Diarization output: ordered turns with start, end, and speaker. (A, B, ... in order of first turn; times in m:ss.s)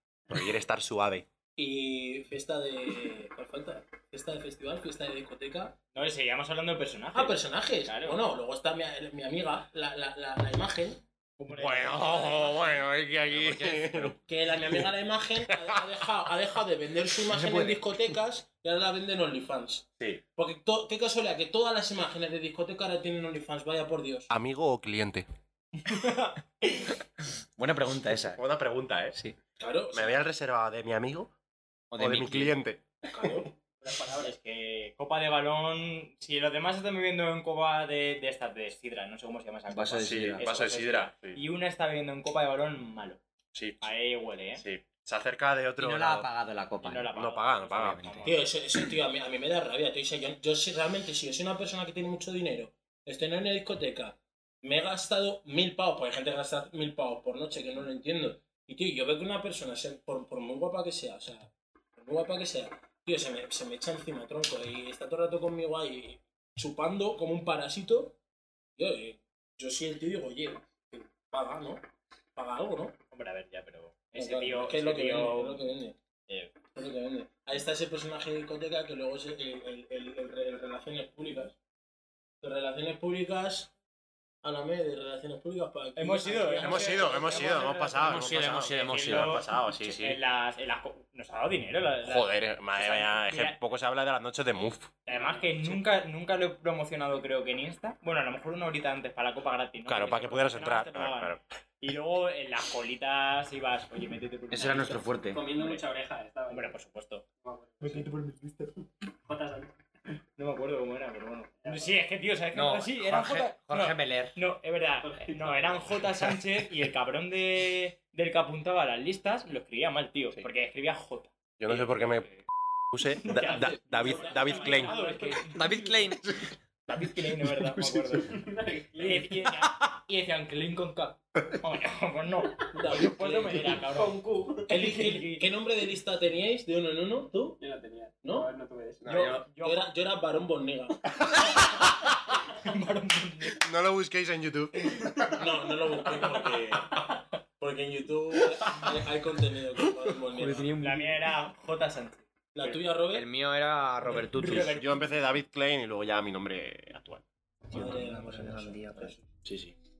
0:00.3-0:01.2 A
0:01.6-0:05.8 B
0:05.9-0:08.2 C
0:07.1-0:11.0 B
0:11.4-0:12.9 C
0:11.5-0:14.9 A
0:13.3-0:14.2 D
0:14.2-0:24.3 B
0:15.5-0:16.1 A
0:17.3-0:17.8 A
0:17.4-0:17.8 D
0:24.3-0:25.3 A
0:25.8-0:27.0 C
0:27.6-0:28.4 D
0:28.2-0:29.2 A
0:29.6-0:30.2 B
0:29.9-0:31.3 A
0:31.9-0:32.5 D
0:32.0-0:33.3 A
0:33.0-0:33.5 B
0:33.8-0:34.4 E
0:34.2-0:43.2 C
0:39.7-0:40.6 D
0:40.0-0:41.4 A
0:43.5-0:43.9 A
0:43.8-0:44.6 C
0:44.6-0:46.3 A
0:45.8-0:47.1 D
0:46.8-0:48.4 C
0:47.1-0:48.2 A
0:47.7-0:48.3 D
0:48.2-1:08.2 B
1:08.8-1:13.0 B
1:13.1-1:15.7 C
1:14.2-1:16.0 B
1:16.3-1:16.6 C
1:16.7-1:21.6 B
1:22.4-1:23.7 B
1:24.4-1:27.8 B
1:26.0-1:33.6 C
1:26.6-1:30.2 A
1:27.4-1:28.0 E
1:28.0-1:29.4 D
1:32.0-1:34.9 A
1:35.1-1:45.8 C
1:35.1-1:35.6 E
1:39.9-1:41.4 A
1:44.5-1:45.4 D
1:45.3-1:46.7 E
1:46.5-1:47.2 C
1:47.4-1:48.1 E
1:47.8-1:48.8 C
1:49.2-1:49.7 E
1:50.4-2:02.2 C
1:51.6-1:52.0 E
1:52.5-1:54.3 D
1:55.0-1:56.1 E
2:01.6-2:02.3 A
2:02.9-2:05.0 A
2:03.1-2:06.2 C
2:03.8-2:05.5 E
2:05.5-2:06.4 D
2:06.2-2:06.5 A
2:06.9-2:15.5 C
2:07.4-2:08.3 A
2:08.2-2:09.4 E
2:12.7-2:13.8 B
2:12.9-2:13.1 E
2:13.7-2:14.7 E
2:14.7-2:17.6 B
2:17.6-2:19.4 E
2:18.2-2:18.5 B
2:19.0-2:19.4 A
2:19.1-2:19.9 C
2:19.1-2:21.1 B
2:21.1-2:21.7 A
2:21.5-2:22.0 C
2:22.6-2:23.6 C
2:23.6-2:25.5 A
2:25.0-2:25.4 C
2:25.3-2:27.0 B
2:26.1-2:27.0 A
2:26.5-2:27.1 C
2:27.6-2:30.7 B
2:30.3-2:31.2 D
2:30.8-2:32.8 C
2:32.6-2:33.3 B
2:33.1-2:34.8 D
2:34.2-2:35.1 C
2:34.6-2:37.2 A
2:37.7-2:39.2 B
2:37.7-2:39.7 D
2:39.4-2:39.7 A